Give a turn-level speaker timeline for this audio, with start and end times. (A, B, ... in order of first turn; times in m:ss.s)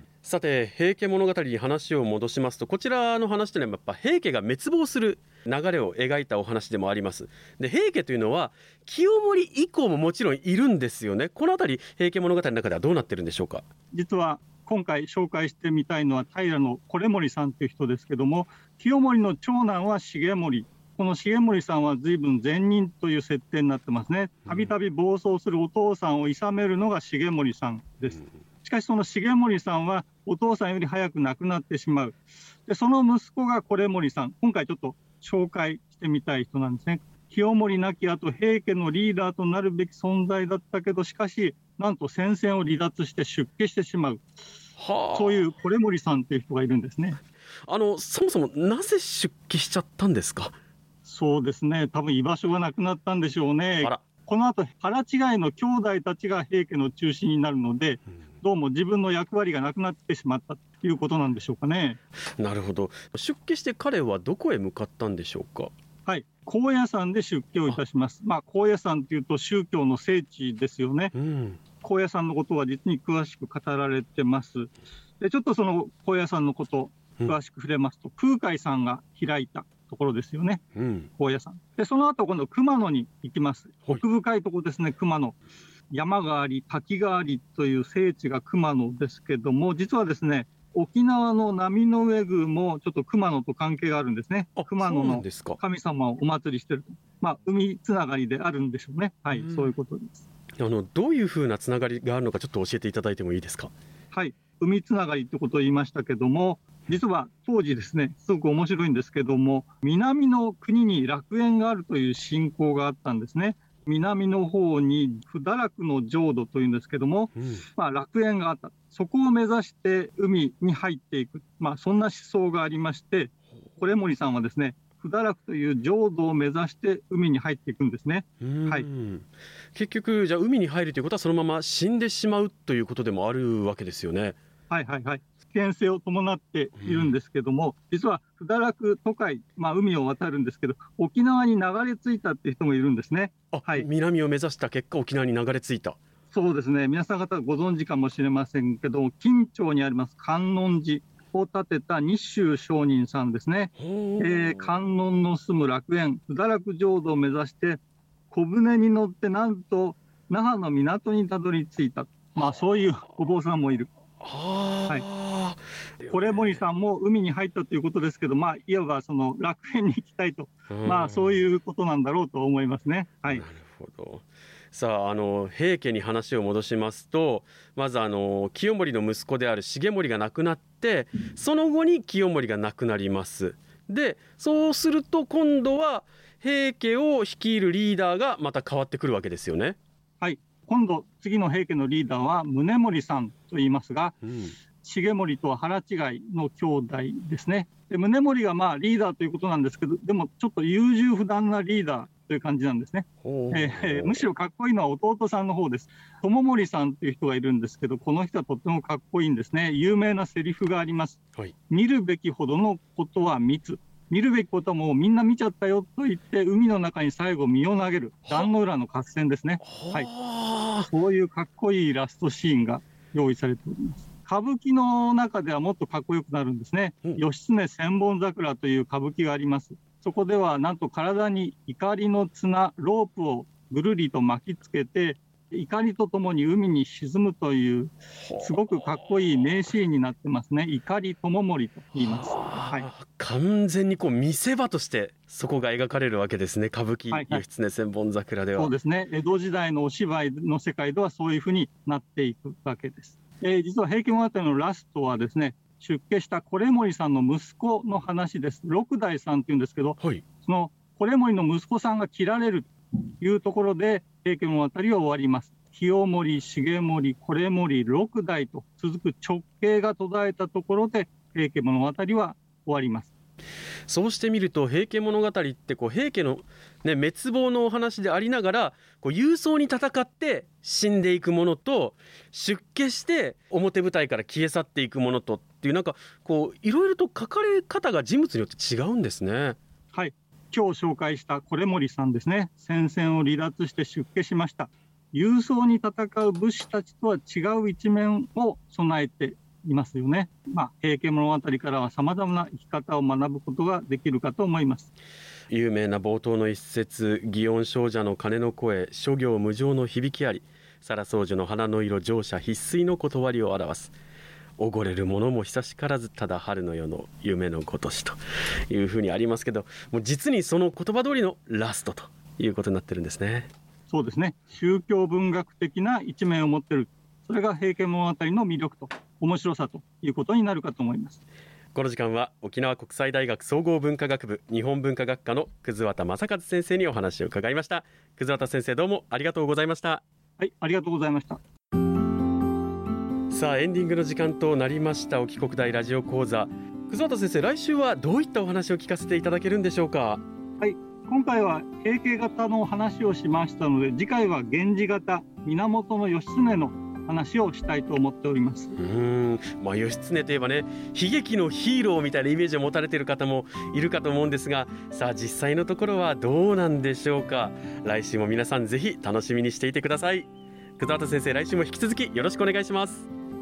0:00.2-0:13.6 A
0:13.9-0:44.2 B
0:44.8-0:45.4 A
0:45.1-0:47.2 B
0:47.7-0:50.5 A
0:51.0-1:02.0 B
1:02.4-1:05.7 A
1:06.0-1:11.1 B
1:11.1-1:11.6 A
1:11.8-1:20.6 B
1:20.8-1:21.1 A
1:21.1-1:25.4 B
1:25.9-1:40.2 B
1:34.6-1:35.6 A
1:39.3-1:39.7 A
1:40.6-1:43.7 A
1:44.1-2:08.8 B
1:57.4-1:57.6 A
2:08.4-2:14.4 A
2:14.7-2:23.8 B
2:16.8-2:17.1 A
2:23.5-2:26.0 A
2:26.3-2:43.9 B
2:33.8-2:34.7 A
2:44.2-2:46.5 A
2:46.1-2:53.4 B
2:50.7-2:51.4 A
2:53.3-3:09.8 A
3:10.2-3:14.2 B
3:14.3-3:14.5 A
3:14.8-3:40.1 B
3:23.2-3:24.2 A
3:39.7-3:40.9 A
3:40.9-4:02.9 B
4:02.0-4:08.7 A
4:07.1-4:07.4 B
4:08.6-4:33.1 B
4:33.9-4:49.6 A
4:49.9-5:04.9 B
5:05.5-5:13.9 A
5:14.6-5:18.2 A
5:18.7-5:23.5 A
5:23.9-5:31.2 B
5:31.7-5:40.0 A
5:40.4-5:41.4 B
5:43.3-5:50.2 A
5:50.6-5:58.7 B
5:58.8-6:13.1 A